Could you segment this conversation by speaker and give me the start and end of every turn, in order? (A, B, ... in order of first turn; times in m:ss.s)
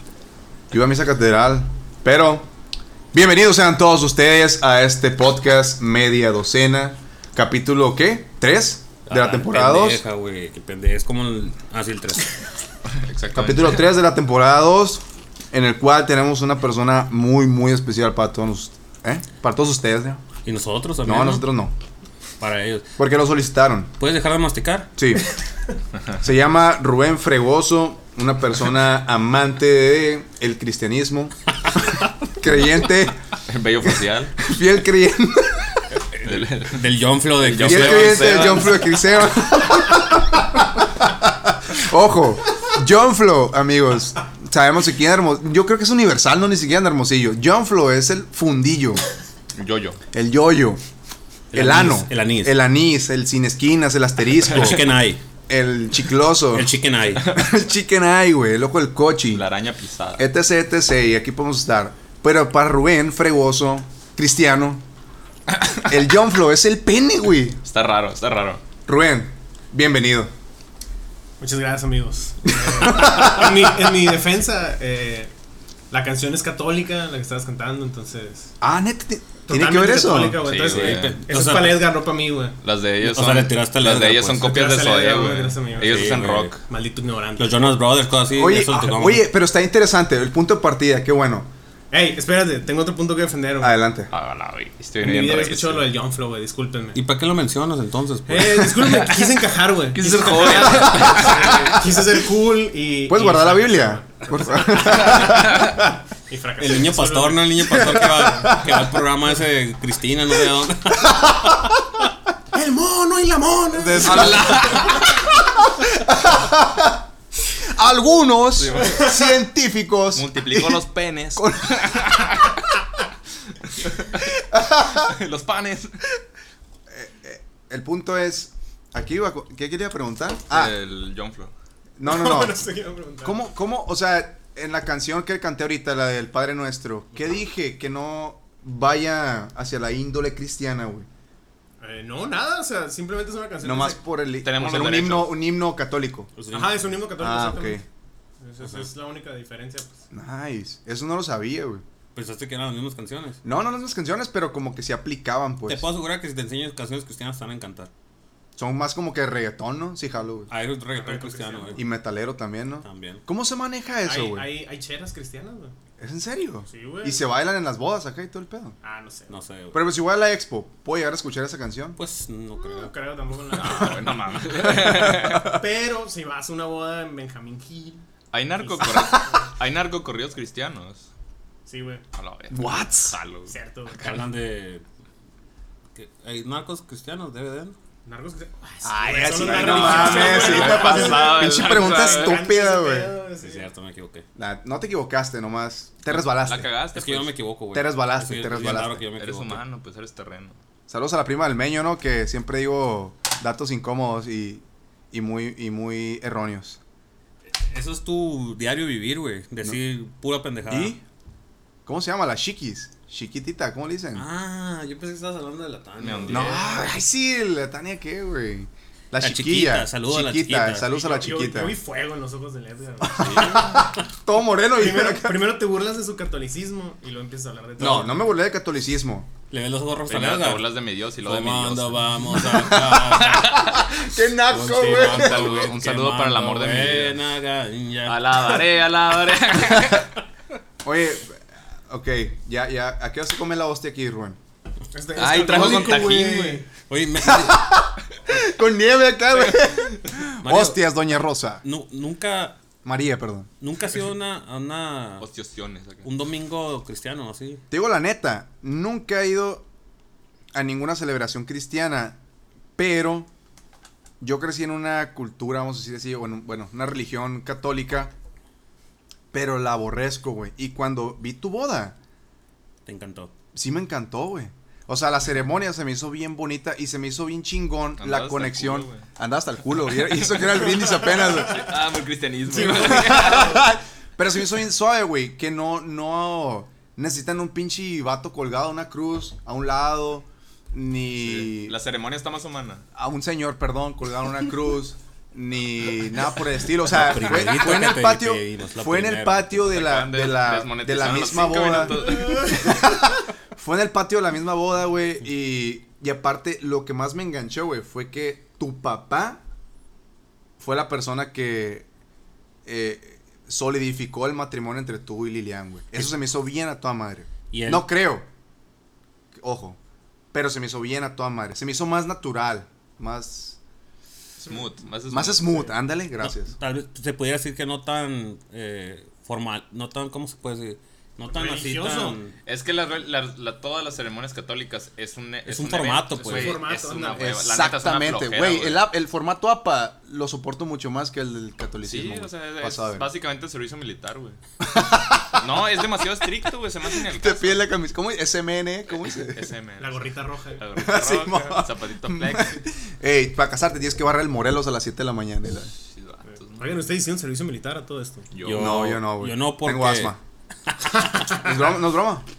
0:00.7-0:02.5 A
0:03.1-0:10.0 A
0:09.1-0:12.4 B
0:13.0-0:13.9 C
0:13.3-0:20.2 A
0:20.4-0:21.4 B
0:21.0-0:21.7 A
0:22.4-0:22.9 B
0:23.0-0:23.9 A
0:24.0-0:24.9 B
0:25.0-0:25.3 A
0:26.2-0:33.2 A
0:33.4-0:34.4 C
0:34.4-0:35.9 A
0:36.2-0:38.7 B
0:36.2-0:39.0 C
0:37.6-0:49.0 A
0:49.5-0:50.0 C
0:50.1-0:50.8 A
0:51.5-0:52.5 B
0:51.5-0:54.8 A
0:54.5-0:55.2 B
0:55.5-0:56.7 A
0:56.5-0:57.3 B
0:57.2-0:59.4 A
0:59.3-1:00.2 C
1:00.2-1:04.8 A
1:05.6-1:05.9 C
1:05.8-1:07.6 A
1:07.6-1:08.6 C
1:08.8-1:10.3 A
1:11.4-1:15.3 D
1:12.7-1:13.6 A
1:15.9-1:18.5 D
1:18.6-1:20.4 A
1:19.5-1:22.6 D
1:20.4-1:21.1 C
1:20.7-1:21.8 B
1:22.6-1:26.6 C
1:23.0-1:24.5 B
1:24.4-1:27.7 D
1:25.8-1:26.5 B
1:27.4-1:29.2 B
1:28.3-1:31.5 A
1:31.9-1:33.8 D
1:33.6-1:34.1 A
1:34.1-1:35.9 C
1:35.0-1:37.0 D
1:36.9-1:38.8 B
1:38.3-1:45.5 D
1:38.8-1:39.3 C
1:39.9-1:41.9 C
1:41.0-1:41.5 A
1:43.1-1:45.9 A
1:45.1-1:45.7 C
1:46.3-1:48.4 D
1:46.6-1:51.5 B
1:47.7-1:48.9 A
1:51.0-1:52.0 A
1:52.5-1:54.9 D
1:53.7-1:57.0 A
1:54.0-1:55.0 C
1:57.5-2:00.8 A
1:58.6-1:59.3 C
2:00.1-2:02.6 C
2:01.4-2:02.2 A
2:04.0-2:04.3 C
2:04.5-2:05.1 A
2:04.9-2:06.0 C
2:06.9-2:10.7 A
2:10.5-2:11.5 C
2:12.0-2:12.6 A
2:12.0-2:13.4 D
2:13.2-2:21.1 A
2:21.8-2:24.0 D
2:23.6-2:26.3 A
2:24.4-2:25.4 C
2:26.4-2:26.9 B
2:26.5-2:27.8 D
2:27.2-2:27.8 A
2:28.4-2:30.0 D
2:30.1-2:31.8 A
2:32.1-2:33.4 B
2:33.4-2:35.8 A
2:35.7-2:37.9 B
2:38.6-2:40.5 A
2:40.5-2:41.8 B
2:40.9-2:41.8 D
2:41.7-2:44.5 A
2:42.8-2:43.2 B
2:44.0-2:45.7 D
2:46.0-2:48.8 A
2:46.7-2:47.2 D
2:48.8-2:49.3 D
2:49.3-2:49.8 B
2:49.7-2:52.0 A
2:52.0-2:52.9 B
2:52.7-2:54.1 D
2:53.6-2:55.6 C
2:54.8-2:55.4 A
2:55.5-2:58.0 D
2:58.3-3:01.0 C
2:58.6-2:59.5 D
3:01.7-3:02.0 D
3:02.1-3:04.1 C
3:02.5-3:03.2 A
3:03.5-3:04.0 D
3:04.0-3:04.8 B
3:05.9-3:07.8 B
3:08.0-3:13.7 D
3:08.8-3:13.2 A
3:09.4-3:12.4 C
3:09.7-3:10.0 B
3:13.4-3:14.2 B
3:14.4-3:16.7 A
3:16.2-3:17.3 C
3:16.9-3:19.6 B
3:17.7-3:19.0 A
3:19.1-3:20.6 C
3:20.9-3:26.8 A
3:27.7-3:31.0 B
3:30.7-3:31.0 A
3:31.8-3:34.2 A
3:34.1-3:36.8 B
3:36.0-3:36.8 C
3:36.3-3:41.8 A
3:39.2-3:40.9 B
3:40.9-3:43.9 D
3:43.0-3:45.5 A
3:43.2-3:43.6 C
3:44.8-3:48.2 D
3:47.8-3:49.3 A
3:49.5-3:50.6 B
3:50.1-3:53.9 C
3:51.2-3:53.7 B
3:52.5-3:55.6 A
3:54.5-3:58.5 B
3:54.8-3:57.2 C
3:58.0-4:00.1 C
4:00.8-4:04.4 A
4:04.9-4:06.6 D
4:05.2-4:06.6 C
4:05.5-4:06.5 A
4:06.9-4:07.7 B
4:07.2-4:11.6 A
4:10.4-4:10.8 B
4:11.6-4:12.6 B
4:12.8-4:13.5 A
4:13.6-4:15.2 B
4:15.2-4:16.1 C
4:16.0-4:17.6 B
4:17.7-4:19.6 A
4:20.5-4:22.2 A
4:22.8-4:23.3 A
4:24.2-4:28.1 A
4:29.3-4:32.0 A
4:32.8-4:33.3 B
4:33.5-4:41.7 A
4:38.0-4:39.0 C
4:40.1-4:43.7 C
4:42.5-4:51.8 A
4:51.2-4:52.8 C
4:52.9-5:09.4 A
4:56.8-4:59.6 B
4:59.6-5:02.8 C
5:10.6-5:11.9 A
5:12.6-5:18.2 A
5:17.5-5:17.8 B
5:19.4-5:19.8 A
5:20.3-5:23.6 A
5:24.4-5:24.7 D
5:24.4-5:25.7 C
5:25.1-5:26.6 A
5:26.2-5:32.3 B
5:31.3-5:32.2 D
5:32.4-5:38.9 C
5:35.4-5:36.6 B
5:36.2-5:37.3 D
5:37.2-5:43.1 A
5:41.8-5:44.4 C
5:44.6-5:45.7 A
5:45.4-5:47.6 C
5:46.9-5:49.5 A
5:48.9-5:52.6 C
5:49.8-5:50.6 D
5:50.8-5:55.7 A
5:55.9-5:56.8 C
5:56.6-5:58.3 D
5:58.3-5:58.9 C
5:58.4-6:00.1 B
5:58.5-6:00.2 A
6:01.0-6:01.6 D
6:01.4-6:02.2 A